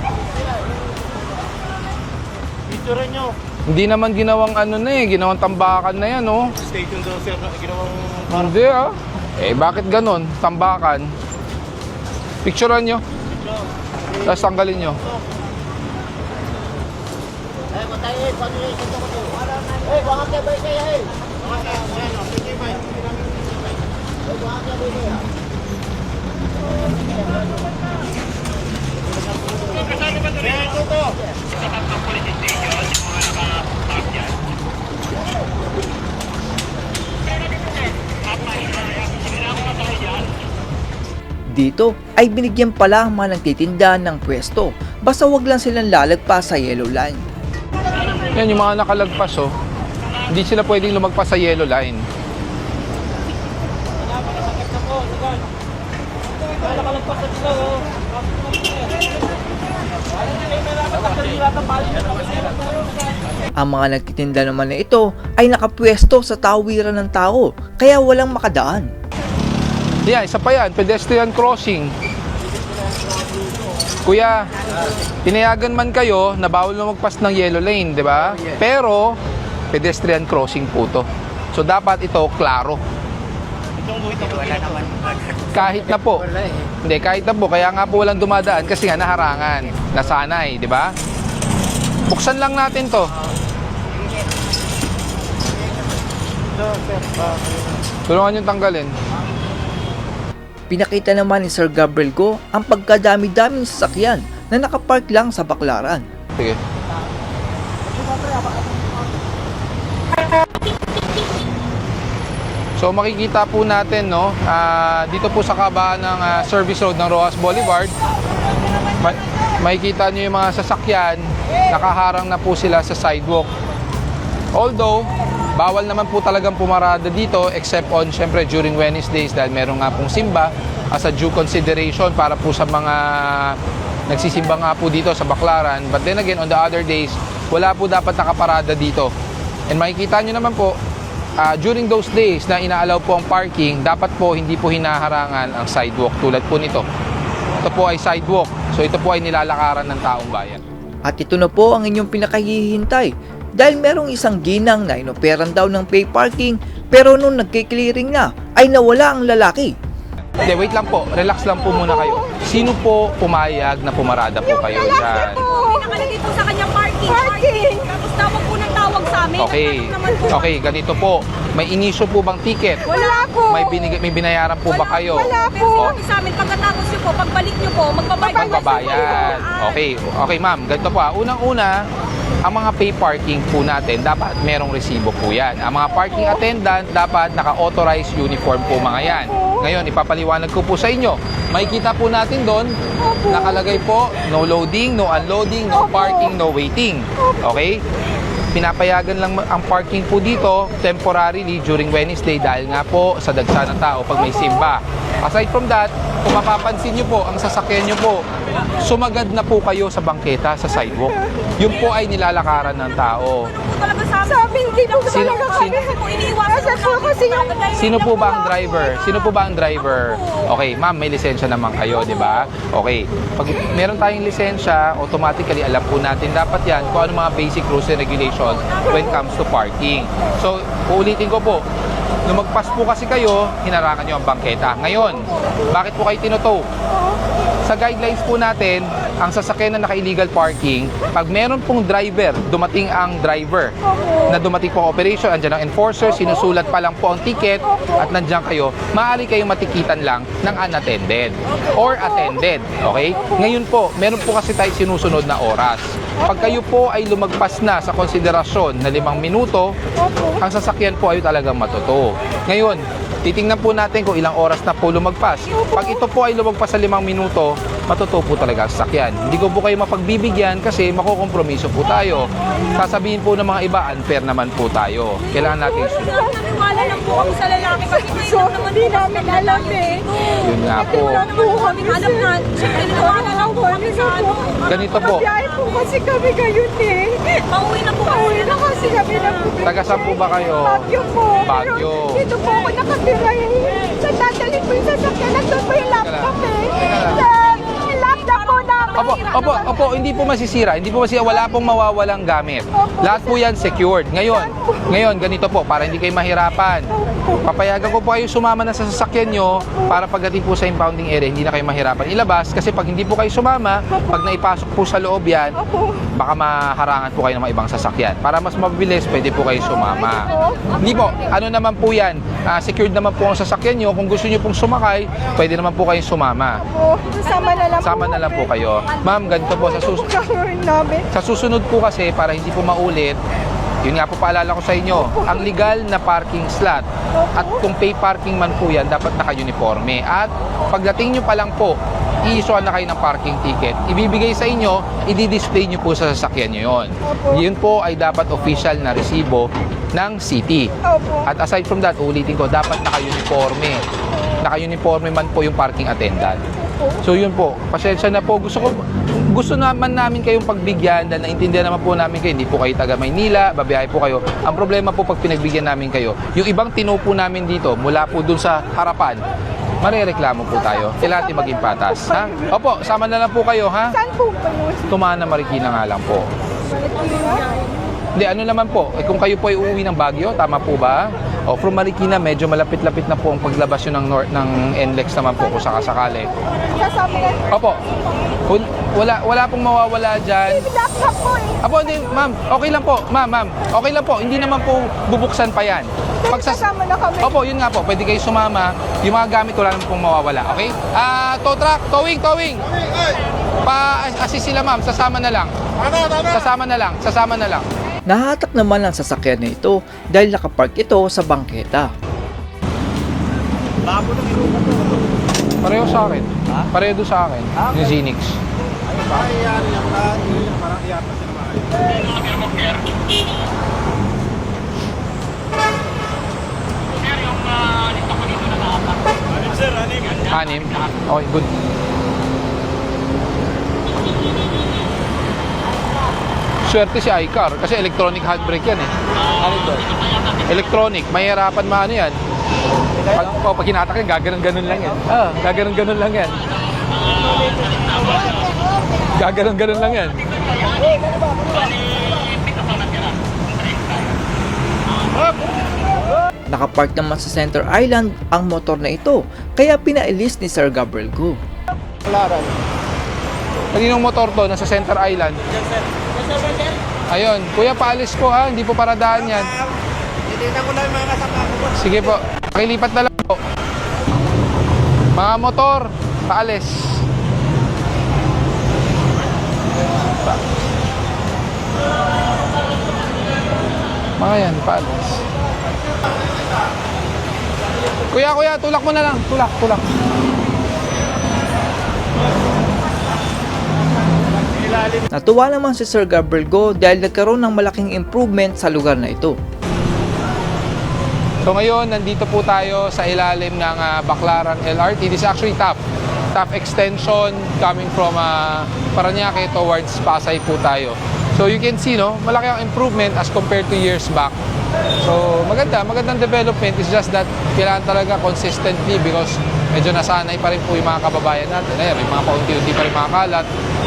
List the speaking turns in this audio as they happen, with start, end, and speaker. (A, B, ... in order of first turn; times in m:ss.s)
0:02.7-0:03.3 A
0:03.7-0:06.5 B
0:06.8-0:08.1 A
0:08.3-0:11.1 B
0:12.4-0:13.0 B
0:14.2-0:15.0 B
0:41.5-0:47.2 C
0:48.3-0:49.6 B
0:50.3-0:52.0 B
1:03.6-1:08.9 C
1:10.0-1:11.9 B
1:14.0-1:14.5 B
1:15.2-1:19.2 B
1:19.7-1:22.8 B
1:25.5-1:26.3 B
1:26.8-1:30.9 B
1:32.1-1:33.1 B
1:36.5-1:37.8 A
1:38.1-1:38.9 B
1:40.7-1:46.0 C
1:52.8-1:57.9 B
1:59.0-2:03.5 B
2:04.5-2:19.1 B
2:19.7-2:20.8 B
2:21.4-2:26.8 B
2:27.6-2:30.6 B
2:31.1-2:39.7 C
2:40.4-2:45.5 B
2:45.5-2:50.3 D
2:49.4-2:56.0 B
2:55.3-2:59.2 D
2:58.4-3:01.8 B
3:02.4-3:17.8 B
3:18.5-3:28.2 B
3:28.8-3:33.5 B
3:33.6-3:38.1 D
3:35.0-3:35.9 B
3:37.8-3:51.6 B
3:52.2-3:56.7 B
3:57.6-4:03.8 B
4:04.3-4:19.7 B
4:20.3-4:36.3 B
4:36.2-4:40.4 D
4:40.4-4:41.4 B
4:41.2-4:44.8 D
4:44.6-4:45.3 B
4:45.5-4:46.1 D
4:46.0-4:47.2 E
4:47.2-4:49.6 D
4:49.6-4:52.4 B
4:52.4-4:55.6 E
4:55.6-4:57.3 B
4:57.8-4:58.9 D
4:58.9-5:15.6 B
5:16.1-5:26.7 B
5:27.8-5:30.5 B
5:31.1-5:33.2 B
5:33.8-5:53.8 B
5:54.4-5:56.4 B
5:57.0-6:09.2 B
6:09.8-6:14.0 B
6:14.9-6:16.3 B
6:18.2-6:26.3 B
6:26.9-6:27.3 E
6:27.5-6:27.8 B
6:28.5-6:30.8 B
6:30.9-6:31.5 E
6:31.6-6:42.6 B
6:43.6-6:45.5 B
6:46.2-6:47.7 B
6:48.1-6:51.9 C
6:55.6-6:58.4 B
6:59.1-6:59.9 A
7:10.3-7:11.5 B
7:16.7-7:18.9 B
7:20.5-7:22.2 B
7:23.1-7:26.4 B
7:29.1-7:30.2 B
7:36.5-7:41.4 C
7:43.7-7:45.4 B
7:47.1-7:49.6 B
7:51.7-7:53.4 B
7:55.1-7:57.0 B
8:04.2-8:05.2 B
8:08.1-8:09.8 B
8:15.1-8:19.4 C
8:21.4-8:25.8 B
8:26.3-8:34.4 B
8:35.0-8:43.5 B